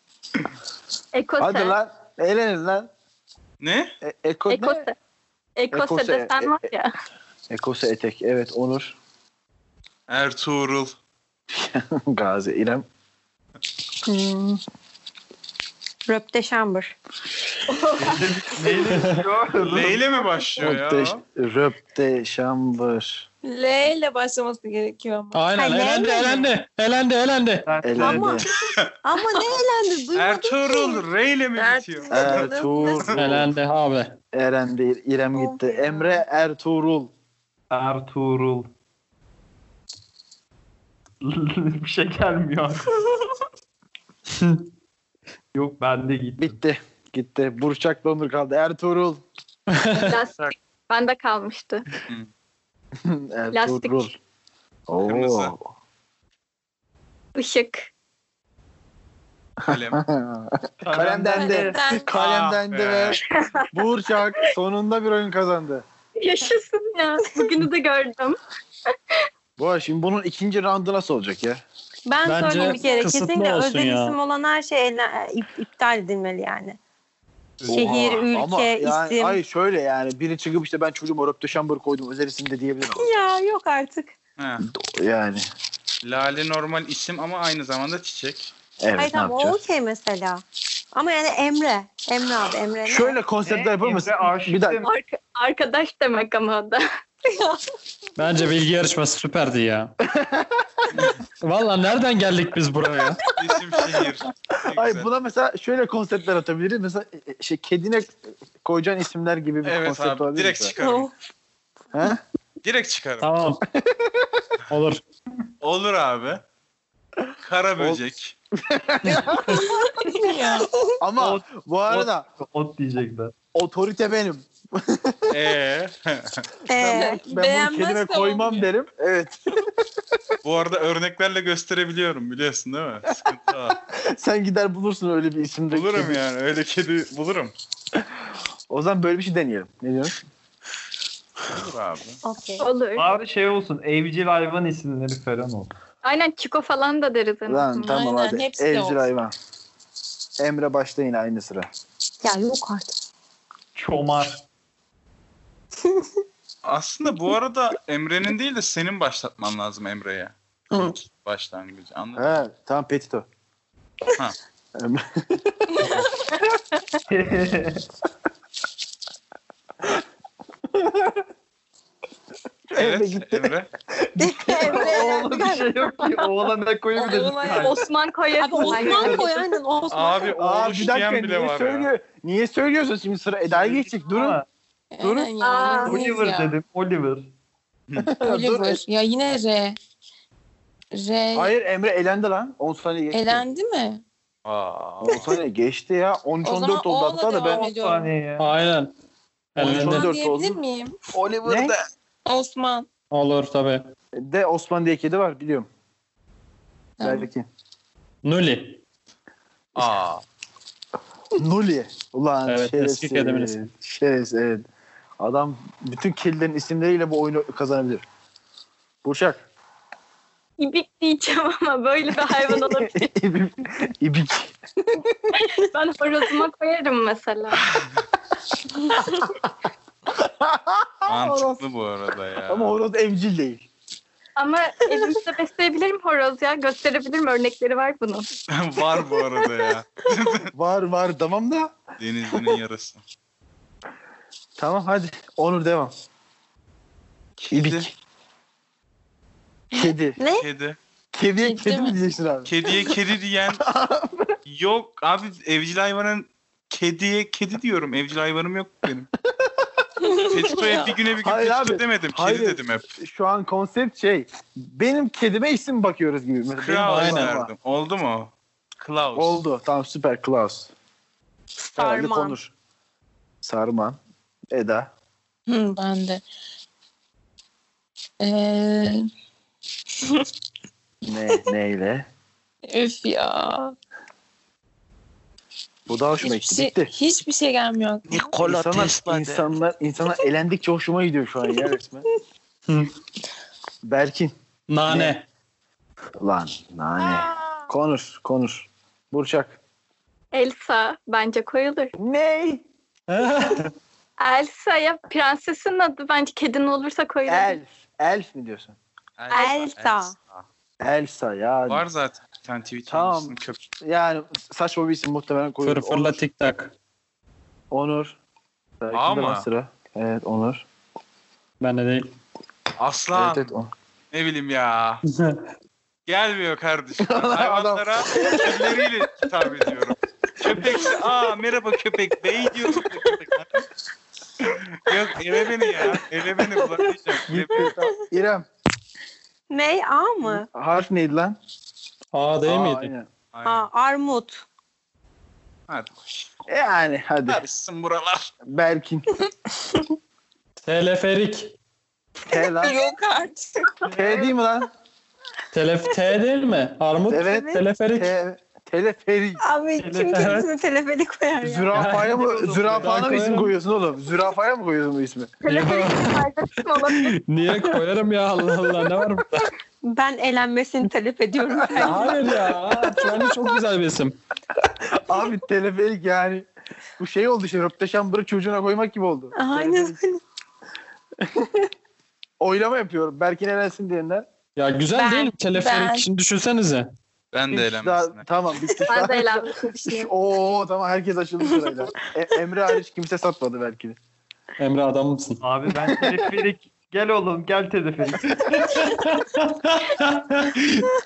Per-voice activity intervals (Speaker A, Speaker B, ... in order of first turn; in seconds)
Speaker A: 1.1-1.8, 4.5-4.9, 5.6-6.9, 17.7-18.3, 50.0-51.9, 53.5-54.1, 57.4-57.9, 63.4-63.7, 66.2-68.4, 94.8-96.8, 142.6-143.1, 146.0-148.0, 177.5-179.3, 185.4-185.9, 220.6-223.0, 225.3-227.7, 234.4-238.3, 300.3-301.9, 304.2-307.6, 309.3-309.6, 365.4-367.1, 388.9-390.1
Speaker B: 1.4-2.9, 4.0-4.8, 5.7-6.6, 7.5-9.0, 11.5-12.8, 14.1-14.6, 20.6-23.3, 27.8-28.5, 32.1-33.5, 34.3-37.1, 46.4-49.2, 53.0-54.2, 54.9-55.7, 59.7-63.2, 63.7-65.8, 69.6-71.6, 77.7-83.1, 84.6-85.5, 88.8-89.6, 92.8-94.8, 100.0-100.9, 104.7-110.7, 111.9-112.2, 113.7-114.5, 118.5-119.7, 121.0-122.3, 123.5-125.3, 126.7-129.7, 133.9-136.2, 138.7-140.2, 147.5-149.3, 150.4-151.7, 162.2-163.3, 164.8-166.1, 170.8-171.1, 172.7-175.3, 180.3-184.4, 185.0-185.3, 188.0-188.8, 191.3-193.4, 195.0-197.6, 199.6-200.6, 201.1-201.8, 204.2-205.7, 207.0-207.5, 211.4-214.7, 215.2-218.0, 219.0-219.5, 222.3-225.3, 230.1-231.6, 232.5-233.7, 240.5-241.7, 244.6-245.9, 247.5-247.9, 249.7-250.2, 251.1-252.9, 253.6-254.3, 261.2-267.5, 269.1-270.7, 271.8-272.5, 273.4-274.0, 274.5-274.9, 281.1-282.1, 285.9-286.9, 288.3-292.1, 293.8-294.3, 294.9-295.2, 296.2-299.6, 302.0-302.6, 307.3-308.8, 310.8-311.8, 312.9-316.2, 317.7-318.2, 318.8-320.6, 323.1-323.7, 327.0-328.7, 337.3-338.5, 340.2-341.4, 342.4-343.1, 346.5-347.4, 348.5-349.1, 352.3-352.8, 353.9-354.7, 357.1-359.4, 361.4-365.4, 371.6-372.2, 374.8-376.5, 377.0-380.0, 381.3-381.7, 382.4-384.3, 387.5-394.0
Speaker C: 3.6-3.9, 10.1-10.9, 19.6-21.2, 30.1-33.2, 55.0-55.5, 59.6-60.0, 62.1-63.2, 84.4-84.7, 86.0-88.5, 103.3-105.1, 109.6-111.1, 112.6-113.3, 115.6-116.4, 117.4-118.3, 125.3-126.5, 130.4-133.8, 135.7-137.5, 141.5-142.2, 156.6-162.4, 172.8-173.7, 179.9-181.9, 194.4-195.4, 209.8-210.2, 231.1-232.8, 238.5-240.5, 242.0-243.0, 247.4-247.9, 250.4-250.8, 252.5-253.6, 254.5-259.1, 260.3-262.9, 266.6-269.4, 288.2-289.4, 309.2-310.4, 311.7-313.6, 318.9-319.5, 322.8-323.5, 324.1-325.0, 326.1-333.5, 334.5-337.8, 343.3-343.7, 345.7-346.3, 347.3-348.3, 387.3-388.2
Speaker D: 16.1-16.9, 25.6-26.5, 27.9-31.0, 35.3-36.2, 72.1-76.8, 77.7-79.4, 82.9-84.1, 89.0-93.2, 97.3-97.6, 126.7-127.2, 142.2-142.7, 152.2-152.9, 174.2-175.7, 178.4-180.3, 249.8-250.5, 271.6-272.4, 309.3-310.1, 339.5-340.5, 343.4-344.4, 357.2-357.6, 359.4-361.8, 369.9-372.4, 379.3-380.2
Speaker E: 18.0-20.1, 27.7-28.5, 37.7-38.7, 41.2-42.9, 45.5-46.6, 60.8-61.8, 77.6-78.2, 93.4-94.9, 121.2-123.3, 143.0-145.7, 153.8-154.4, 167.1-167.8, 174.6-177.9, 178.5-179.4, 183.5-184.5, 185.8-187.3, 197.4-198.5, 359.8-360.4, 361.9-363.4, 395.4-399.0
Speaker F: 18.9-19.2, 25.3-27.7, 33.2-34.2, 44.4-44.7, 49.7-50.2, 72.3-74.2, 98.2-99.9, 101.4-103.2, 113.2-113.6, 114.7-115.0, 198.4-198.9, 199.6-200.1, 203.1-203.9, 208.2-208.8, 212.5-213.6, 266.9-267.3, 292.7-292.9, 294.7-295.2, 303.1-303.7, 315.6-316.7, 321.6-322.1, 325.1-325.5, 342.1-342.9, 350.6-351.5, 355.5-358.1, 360.1-360.5, 361.7-363.5, 365.5-369.5, 371.8-374.2, 384.6-386.9, 394.6-395.4
Speaker G: 23.4-25.4, 31.6-33.1, 61.3-62.1, 119.1-121.0, 126.8-128.7, 147.9-149.1, 176.9-177.7, 184.9-186.6, 188.2-189.8, 190.9-191.5, 193.1-194.0, 196.4-198.1, 199.6-201.0, 202.3-202.9, 207.0-207.3, 251.4-252.0, 260.0-260.9, 275.5-276.2, 278.2-279.0, 282.7-283.8, 286.2-288.4, 352.4-353.9, 385.1-386.1